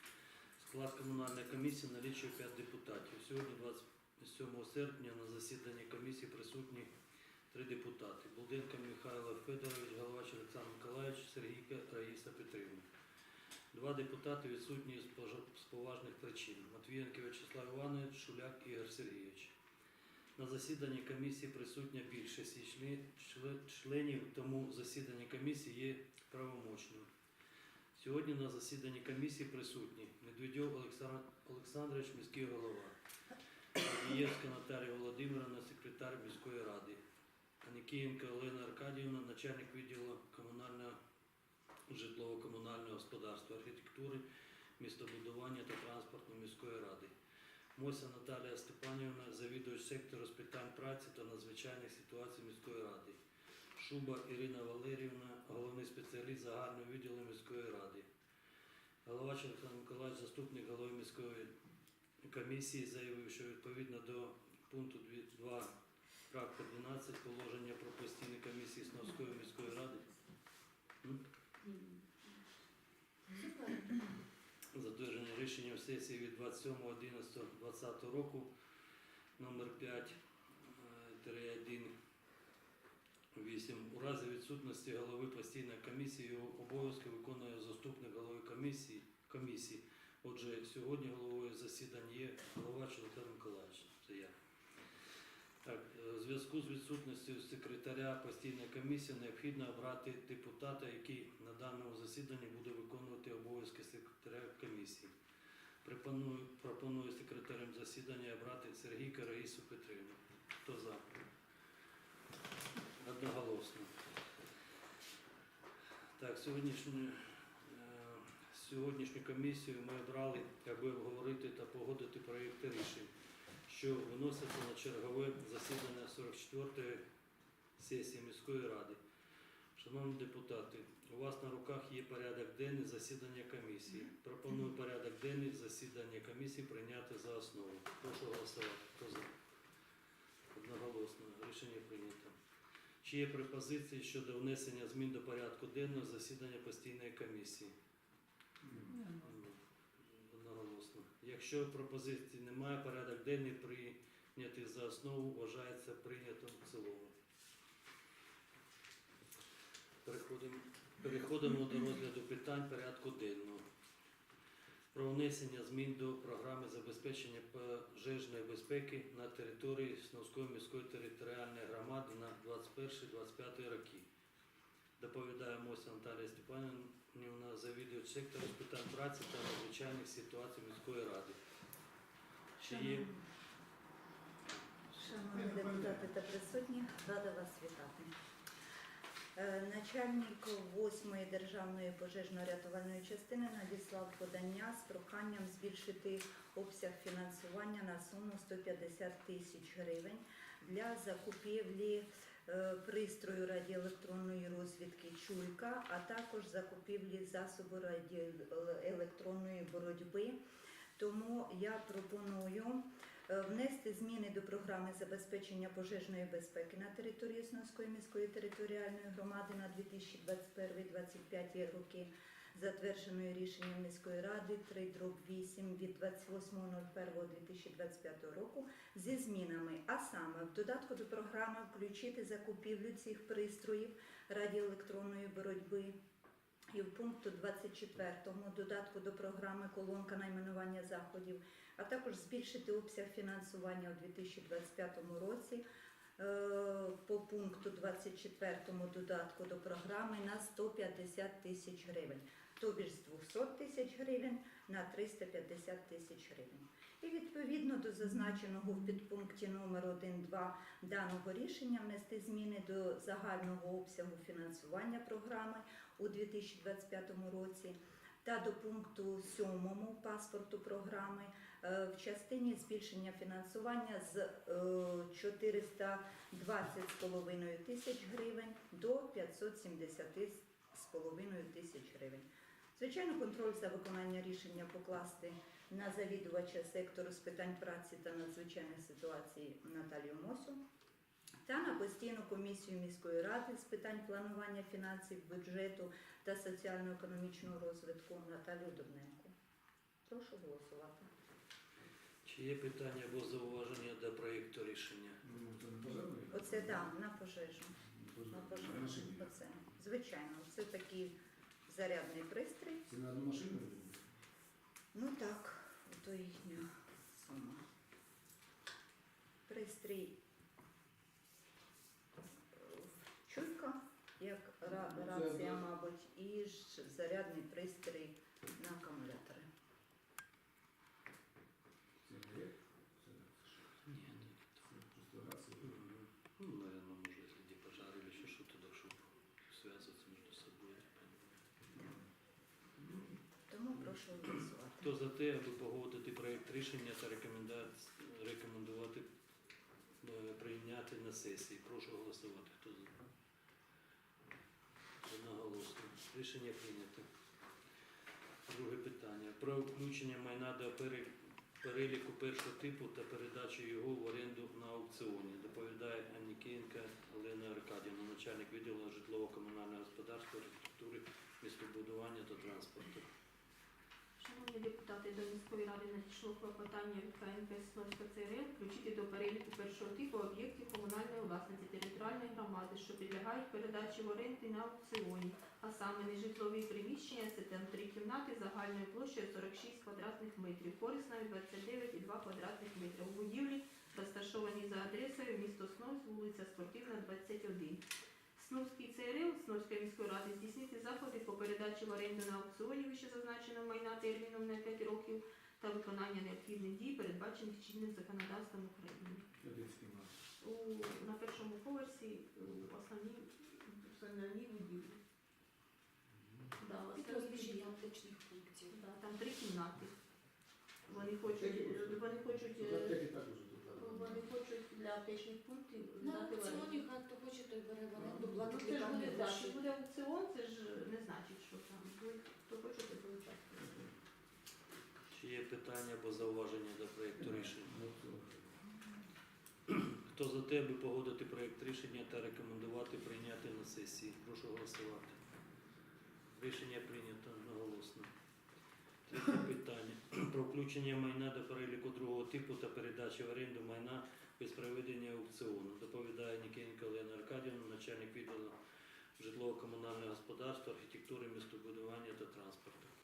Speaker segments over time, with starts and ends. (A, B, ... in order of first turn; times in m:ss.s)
0:00.6-0:06.9 A
0:07.5-0:12.9 A
0:13.7-0:19.5 A
0:20.4-0:27.1 A
0:27.9-0:33.0 A
0:33.8-0:37.0 A
0:37.6-0:41.0 A
0:41.9-0:44.2 A
0:44.8-0:47.1 A
0:47.8-0:53.2 A
0:53.8-0:58.1 A
0:59.0-1:01.5 A
1:02.2-1:05.7 A
1:06.3-1:10.0 A
1:11.6-1:12.4 B
1:13.3-1:14.0 B
1:14.7-1:18.5 A
1:19.4-1:21.9 A
1:23.3-1:34.4 A
1:35.6-1:45.1 A
1:45.8-1:51.0 A
1:53.0-1:53.9 A
1:56.2-2:03.1 A
2:03.7-2:07.0 A
2:07.8-2:09.0 A
2:09.8-2:19.3 A
2:20.5-2:22.4 A
2:23.0-2:27.7 A
2:29.0-2:37.1 A
2:40.0-2:43.7 A
2:44.9-2:54.1 A
2:55.0-3:01.4 A
3:02.6-3:03.1 A
3:02.7-3:03.2 C
3:04.9-3:08.1 C
3:05.4-3:06.0 D
3:09.4-3:30.4 C
3:31.0-3:55.9 C
3:56.7-4:05.6 C
4:06.2-4:50.6 C
4:51.4-4:59.3 C
5:00.1-5:01.1 C
5:02.2-5:05.2 A
5:05.2-5:06.9 D
5:06.3-5:07.8 C
5:07.8-5:09.3 D
5:08.3-5:11.2 C
5:11.7-5:12.8 C
5:12.9-5:14.0 D
5:14.9-5:17.6 C
5:19.5-5:20.2 C
5:22.5-5:29.4 C
5:24.8-5:25.6 D
5:32.0-5:33.8 D
5:33.8-5:34.6 A
5:34.6-5:35.8 D
5:35.7-5:41.3 A
5:43.5-5:44.9 C
5:44.8-5:49.1 A
5:50.0-5:53.0 A
5:55.0-5:57.1 A
5:58.5-6:01.1 A
6:01.6-6:13.1 A
6:14.2-6:37.8 E
6:38.4-6:49.2 E
6:49.4-6:50.1 D
6:50.4-6:55.0 E
6:56.2-6:56.5 D
6:56.6-6:57.8 E
6:56.9-6:58.8 B
6:58.7-7:00.0 E
7:00.9-7:03.0 E
7:01.0-7:04.2 D
7:03.8-7:06.8 E
7:06.0-7:09.6 B
7:08.0-7:08.3 D
7:08.4-7:13.7 E
7:15.1-7:17.8 A
7:17.2-7:18.5 D
7:19.7-7:25.2 A
7:26.3-7:28.1 A
7:29.1-7:38.6 A
7:39.2-7:42.9 A